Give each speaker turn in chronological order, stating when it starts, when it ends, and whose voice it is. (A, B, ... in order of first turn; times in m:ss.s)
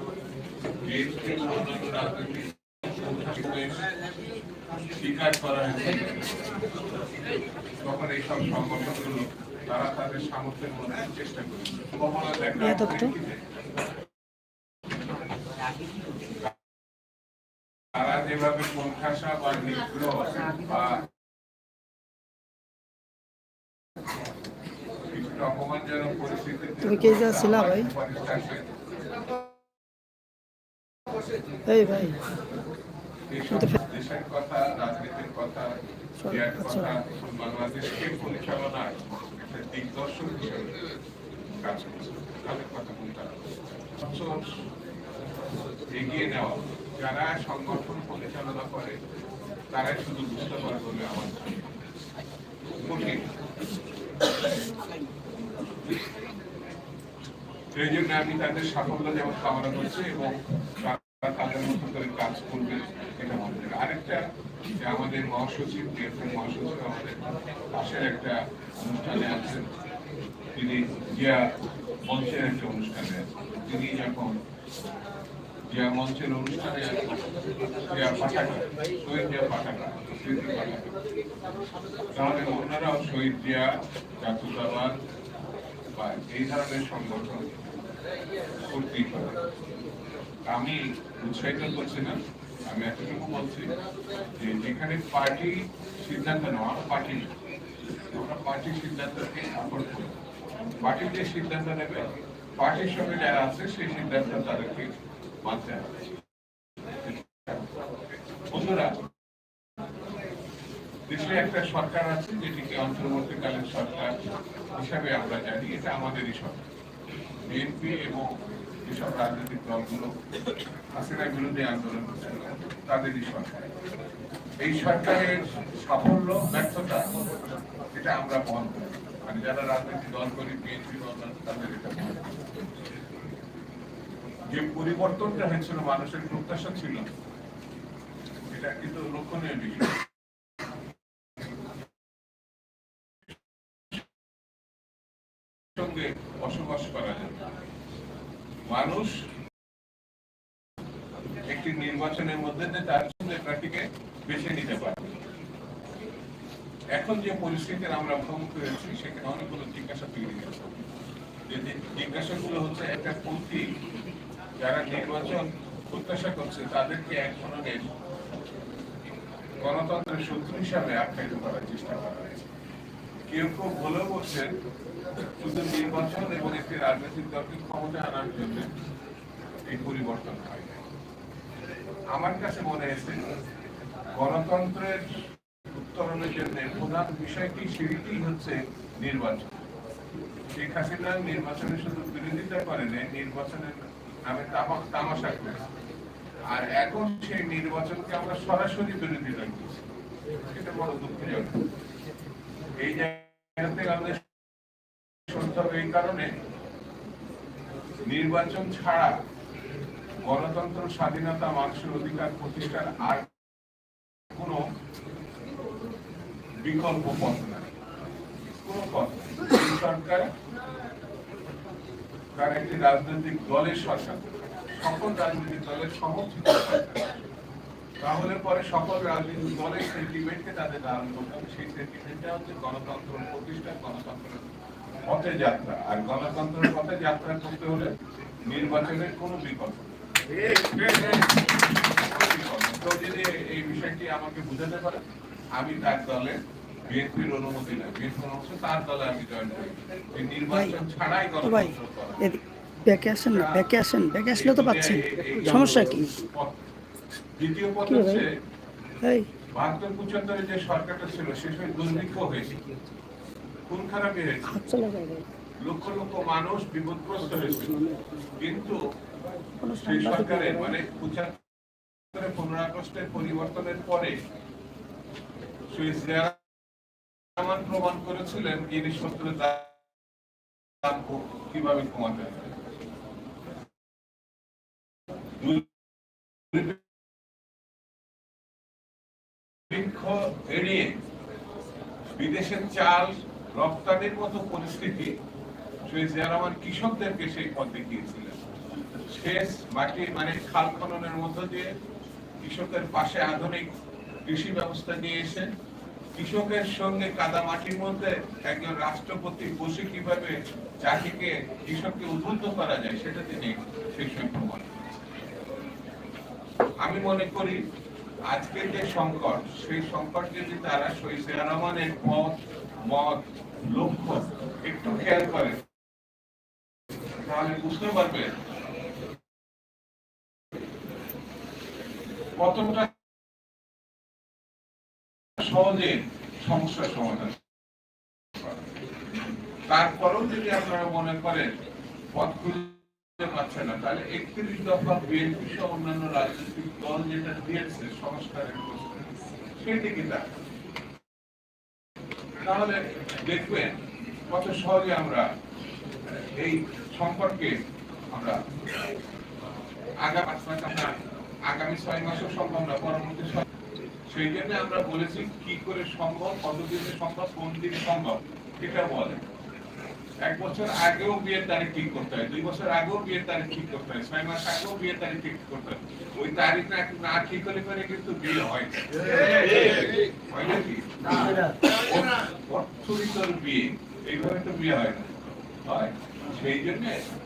0:00.8-0:03.8 A
0:05.0-0:06.3 A
0:07.8-0:13.4 A
0:12.6-0:13.1 B
0:17.9-0:21.0 A
0:25.1-0:28.7 A
0:26.8-0:27.9 B
0:31.7-0:32.2 B
0:33.3-0:35.7 A
0:33.5-0:33.8 B
0:36.2-0:40.7 A
0:36.2-0:36.9 B
0:41.6-0:44.6 A
0:45.9-0:49.0 A
0:49.7-0:51.7 A
0:52.8-0:53.3 A
0:57.7-1:04.2 A
1:04.8-1:09.7 A
1:10.5-1:11.5 A
1:12.0-1:14.4 A
1:15.7-1:17.3 A
1:17.8-1:20.9 A
1:22.1-1:25.0 A
1:25.9-1:27.5 A
1:28.7-1:29.4 A
1:30.5-1:33.7 A
1:34.4-1:37.3 A
1:38.1-1:40.1 A
1:40.8-1:44.9 A
1:45.4-1:46.2 A
1:47.0-1:47.6 A
1:48.5-1:49.0 A
1:51.1-1:54.2 A
1:54.7-1:56.6 A
1:57.4-1:58.3 A
1:58.8-2:00.1 A
2:01.0-2:03.7 A
2:04.6-2:07.0 A
2:07.9-2:12.3 A
2:14.5-2:17.0 A
2:18.5-2:19.9 A
2:25.8-2:27.4 A
2:28.7-2:29.1 A
2:31.5-2:35.1 A
2:36.9-2:40.8 A
2:41.5-2:43.6 A
2:44.6-2:47.9 A
2:49.6-2:52.4 A
2:53.3-2:54.5 A
2:55.4-2:58.7 A
2:59.7-3:00.8 A
3:02.1-3:03.2 A
3:04.1-3:05.1 A
3:05.7-3:09.6 A
3:10.5-3:15.6 A
3:16.5-3:19.8 A
3:20.4-3:21.6 A
3:22.8-3:24.2 A
3:25.3-3:26.3 A
3:28.0-3:29.1 A
3:30.2-3:33.3 A
3:34.3-3:34.6 A
3:36.6-3:37.7 A
3:38.4-3:40.3 A
3:42.3-3:47.1 A
3:48.0-3:54.5 A
3:55.1-3:57.9 A
3:58.5-4:05.0 A
4:05.6-4:12.2 A
4:10.5-4:10.8 B
4:11.4-4:16.2 B
4:13.2-4:13.6 A
4:14.3-4:16.6 A
4:17.4-4:18.3 A
4:17.8-4:18.2 B
4:19.0-4:19.3 B
4:19.5-4:22.6 A
4:23.7-4:24.6 A
4:24.5-4:25.2 B
4:25.6-4:27.8 A
4:27.2-4:28.1 B
4:28.4-4:28.8 A
4:29.6-4:30.8 B
4:29.8-4:31.4 A
4:32.1-4:34.2 A
4:35.7-4:36.4 A
4:37.4-4:39.8 A
4:40.8-4:42.6 A
4:45.4-4:45.6 A
4:46.5-4:46.8 A
4:49.7-4:51.0 A
4:52.1-4:55.2 A
4:55.8-4:58.4 A
4:59.1-5:01.7 A
5:02.4-5:03.7 A
5:04.2-5:05.5 A
5:06.2-5:14.8 A
5:16.8-5:17.6 A
5:18.3-5:25.6 A
5:27.2-5:28.4 A
5:32.4-5:32.9 A
5:35.4-5:37.4 A
5:38.4-5:38.7 A
5:39.7-5:41.5 A
5:42.1-5:50.2 A
5:52.4-5:55.2 A
5:56.4-5:57.6 A
5:58.1-5:58.4 A
6:00.0-6:00.9 A
6:01.5-6:03.5 A
6:04.1-6:09.2 A
6:10.2-6:27.0 A